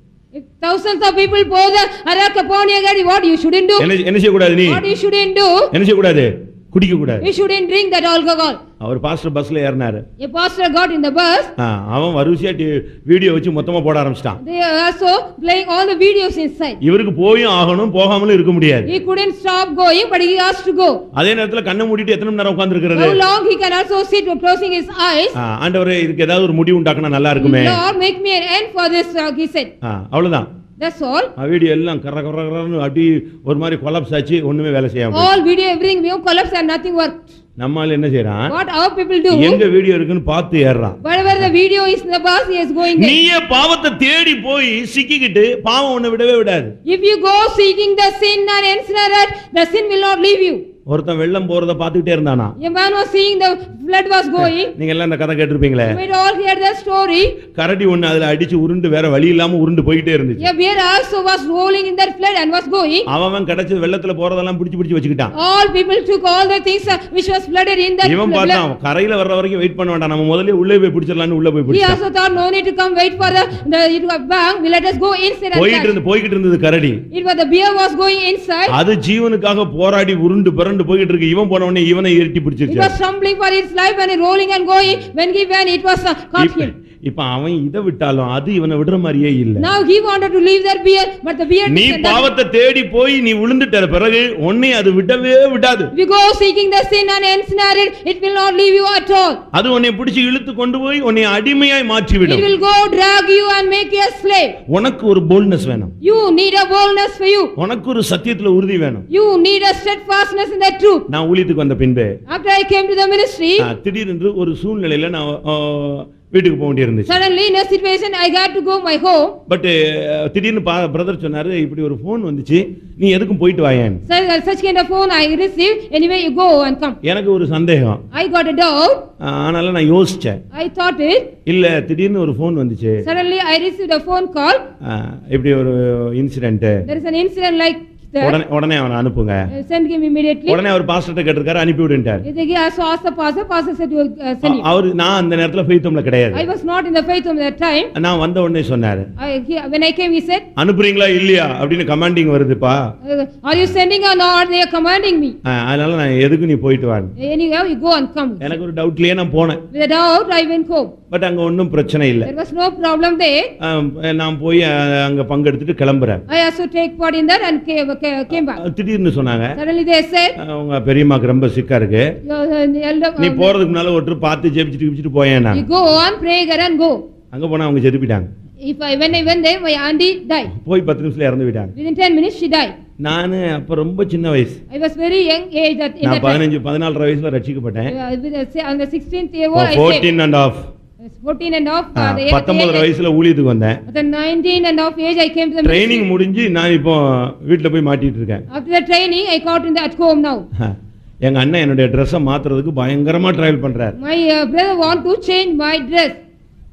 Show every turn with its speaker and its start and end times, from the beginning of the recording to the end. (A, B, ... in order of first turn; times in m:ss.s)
0:00.3-0:03.9 A
0:03.8-0:04.8 B
0:04.6-0:05.7 A
0:05.7-0:07.3 B
0:07.2-0:08.6 A
0:08.8-0:10.0 B
0:10.2-0:11.5 A
0:11.6-0:14.4 B
0:14.4-0:16.8 A
0:16.8-0:18.9 B
0:18.8-0:21.0 A
0:21.1-0:23.2 B
0:22.9-0:25.4 A
0:25.4-0:27.8 B
0:27.4-0:29.7 A
0:29.8-0:30.5 B
0:30.8-0:31.3 A
0:31.4-0:35.3 B
0:35.1-0:37.3 A
0:37.6-0:38.5 B
0:38.5-0:39.6 A
0:39.3-0:41.0 B
0:41.0-0:43.2 A
0:42.8-0:46.7 B
0:46.8-0:50.6 A
0:50.9-0:52.5 B
0:52.6-0:54.7 A
0:54.4-0:56.0 B
0:55.9-0:57.4 A
0:57.5-1:00.5 B
1:00.4-1:03.1 A
1:03.1-1:05.3 B
1:05.3-1:08.6 A
1:08.0-1:12.0 B
1:11.7-1:16.0 A
1:15.5-1:17.0 B
1:17.1-1:18.8 A
1:18.7-1:22.9 B
1:22.7-1:26.7 A
1:26.4-1:29.7 B
1:29.6-1:32.3 A
1:31.6-1:35.9 B
1:35.9-1:39.4 A
1:39.5-1:42.5 B
1:42.2-1:44.6 A
1:44.7-1:45.9 B
1:46.0-1:47.5 A
1:47.6-1:49.0 B
1:49.1-1:51.0 A
1:51.1-1:52.2 B
1:52.3-1:53.7 A
1:53.6-1:57.1 B
1:57.1-1:59.4 A
1:59.5-2:04.0 B
2:04.0-2:07.0 A
2:07.0-2:08.0 B
2:08.1-2:09.0 A
2:09.2-2:10.4 B
2:10.5-2:11.3 A
2:11.4-2:13.0 B
2:13.0-2:14.6 A
2:14.8-2:16.8 B
2:16.8-2:18.4 A
2:18.2-2:19.4 B
2:19.5-2:20.6 A
2:20.5-2:22.2 B
2:22.2-2:24.6 A
2:24.4-2:26.4 B
2:26.3-2:27.9 A
2:27.9-2:29.1 B
2:29.2-2:30.4 A
2:30.6-2:32.8 B
2:33.0-2:35.4 A
2:35.4-2:37.1 B
2:37.2-2:38.6 A
2:38.4-2:39.6 B
2:39.7-2:40.9 A
2:41.1-2:42.3 B
2:42.2-2:43.5 A
2:43.6-2:46.2 B
2:46.3-2:48.6 A
2:48.3-2:49.6 B
2:49.6-2:50.3 A
2:50.4-2:52.1 B
2:52.2-2:53.5 A
2:53.2-2:55.6 B
2:55.5-2:57.0 A
2:57.3-2:58.3 B
2:58.6-3:00.5 A
3:00.5-3:01.7 B
3:01.7-3:02.7 A
3:03.0-3:04.6 B
3:04.7-3:06.4 A
3:06.0-3:07.9 B
3:07.9-3:10.1 A
3:09.5-3:10.6 B
3:11.1-3:12.9 A
3:12.0-3:13.8 B
3:13.9-3:16.0 A
3:15.6-3:18.4 B
3:18.5-3:20.4 A
3:20.6-3:24.0 B
3:24.0-3:26.2 A